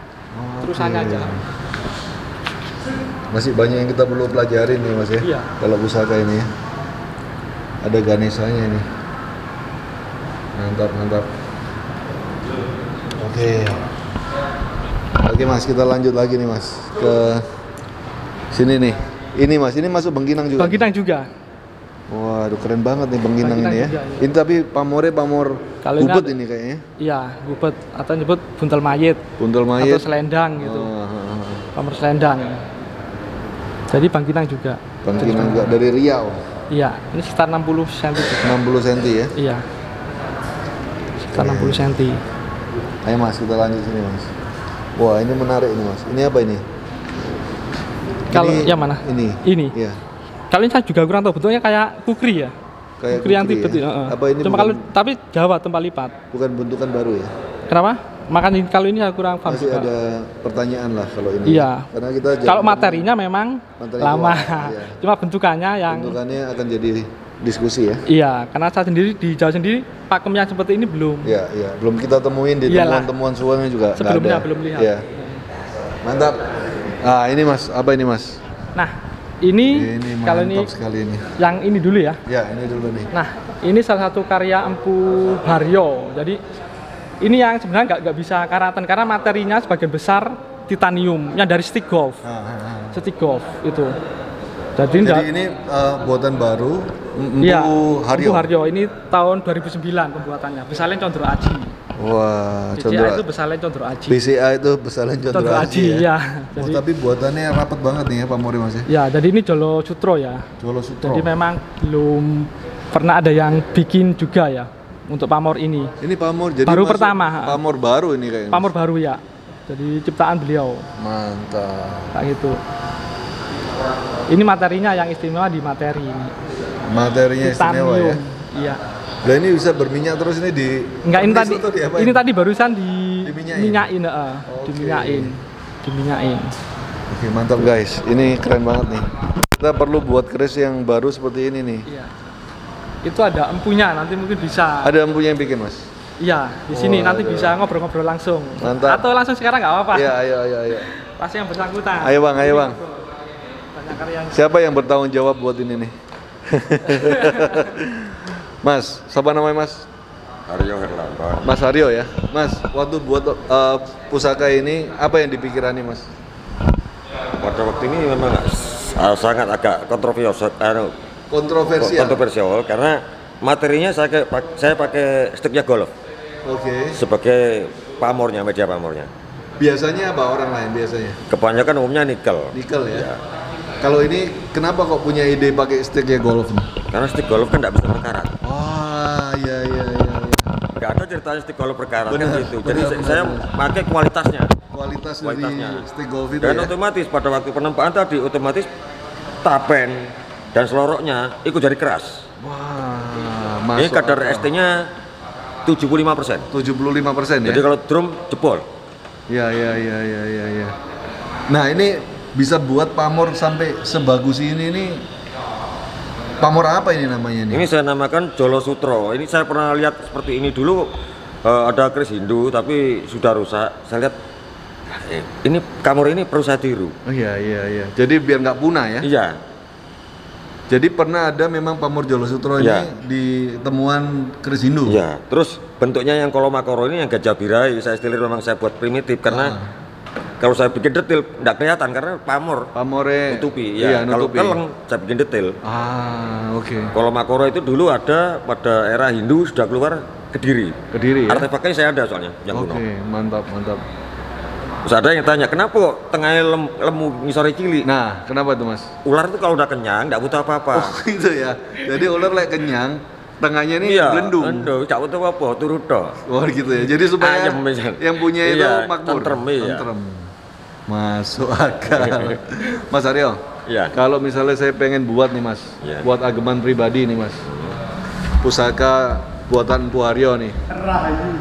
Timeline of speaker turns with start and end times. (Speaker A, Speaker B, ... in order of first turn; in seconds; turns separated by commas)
Speaker A: 0.3-1.4, Speaker B: 0.6-1.3, Speaker A: 3.3-6.5, Speaker B: 5.2-5.5, Speaker A: 7.8-8.9, Speaker A: 10.6-11.3, Speaker A: 13.2-13.8, Speaker A: 15.2-17.4, Speaker A: 18.5-20.8, Speaker B: 20.6-21.3, Speaker A: 22.1-26.8, Speaker B: 23.4-24.3, Speaker B: 25.8-26.3, Speaker B: 27.0-29.2, Speaker A: 29.4-31.7, Speaker B: 29.8-30.9, Speaker B: 31.7-32.6, Speaker B: 33.9-35.7, Speaker A: 35.0-36.4, Speaker B: 36.7-38.6, Speaker A: 38.4-39.3, Speaker B: 39.3-39.6, Speaker B: 41.2-42.2, Speaker A: 41.3-41.9, Speaker A: 43.0-44.3, Speaker A: 45.0-46.6, Speaker A: 48.3-50.0, Speaker B: 48.3-49.7, Speaker B: 50.5-52.5, Speaker A: 53.0-54.8, Speaker B: 53.1-56.1, Speaker A: 56.3-57.3, Speaker B: 57.7-59.9, Speaker A: 59.5-63.1, Speaker B: 61.5-61.9, Speaker B: 62.4-66.2, Speaker A: 63.8-65.0, Speaker A: 65.9-68.0, Speaker B: 68.1-71.3, Speaker A: 71.2-75.0, Speaker B: 72.7-73.1, Speaker B: 74.0-75.4, Speaker A: 76.0-78.4, Speaker B: 78.7-80.7, Speaker A: 79.7-81.2, Speaker B: 81.4-82.2, Speaker A: 82.2-83.1, Speaker B: 83.1-86.4, Speaker B: 87.2-92.2, Speaker A: 92.2-93.0, Speaker B: 92.9-94.0, Speaker B: 94.8-95.3, Speaker A: 95.0-98.5, Speaker B: 97.4-101.7, Speaker A: 101.9-103.2, Speaker B: 102.8-104.2, Speaker A: 104.1-108.9, Speaker B: 105.3-106.8, Speaker B: 108.9-110.5, Speaker A: 110.6-111.3, Speaker B: 111.0-115.9, Speaker A: 116.0-118.7, Speaker B: 116.7-117.6, Speaker B: 118.5-120.9, Speaker A: 121.0-122.1, Speaker B: 122.1-122.6, Speaker B: 124.3-126.3, Speaker A: 126.9-128.2, Speaker B: 127.4-128.8, Speaker A: 129.2-132.2, Speaker B: 131.0-136.5, Speaker A: 133.2-133.9, Speaker A: 134.5-135.3, Speaker A: 137.1-141.9, Speaker B: 141.9-142.1, Speaker B: 143.0-144.9, Speaker A: 144.8-145.9, Speaker B: 146.2-150.2, Speaker A: 146.7-147.6, Speaker A: 148.6-149.0, Speaker A: 149.9-150.9, Speaker B: 150.8-152.9, Speaker A: 152.0-152.8, Speaker B: 153.7-154.5, Speaker A: 154.3-155.9, Speaker A: 156.4-159.9, Speaker B: 157.1-157.5, Speaker C: 160.5-161.5, Speaker A: 161.4-166.1, Speaker C: 167.4-170.9, Speaker A: 171.3-172.2, Speaker C: 171.8-175.9, Speaker A: 176.4-177.0, Speaker C: 176.9-179.1, Speaker A: 179.6-181.2, Speaker C: 181.3-183.2, Speaker A: 182.5-183.1, Speaker A: 183.8-186.7, Speaker C: 186.9-188.3, Speaker A: 188.4-190.5, Speaker C: 190.8-194.5, Speaker A: 192.1-193.5, Speaker A: 194.7-196.7, Speaker C: 195.2-195.8, Speaker C: 196.4-198.7, Speaker C: 199.4-202.2, Speaker A: 202.4-204.5, Speaker C: 203.8-204.8, Speaker C: 205.6-206.5, Speaker A: 206.5-207.6, Speaker C: 207.4-208.6, Speaker A: 209.3-210.7, Speaker A: 211.5-215.1, Speaker A: 216.4-217.7, Speaker C: 217.5-220.9, Speaker C: 221.4-224.1, Speaker C: 224.9-226.9, Speaker A: 227.1-229.1, Speaker C: 229.0-229.4, Speaker A: 230.7-235.0, Speaker C: 232.6-232.9, Speaker C: 234.9-239.5, Speaker A: 239.3-239.7, Speaker C: 240.4-242.7, Speaker A: 242.7-244.6, Speaker C: 243.3-245.5, Speaker A: 245.6-246.9, Speaker C: 246.9-250.8, Speaker A: 250.9-251.5, Speaker C: 251.3-252.8, Speaker A: 252.5-253.8, Speaker C: 254.8-257.9, Speaker A: 257.8-258.9, Speaker C: 259.0-261.0, Speaker A: 260.7-264.7, Speaker C: 263.8-266.2, Speaker A: 266.2-270.3, Speaker C: 267.2-269.9, Speaker A: 270.9-273.4, Speaker C: 271.9-272.4, Speaker C: 273.7-273.9, Speaker A: 273.9-277.4, Speaker C: 275.8-276.1, Speaker C: 277.5-277.7, Speaker A: 278.4-280.6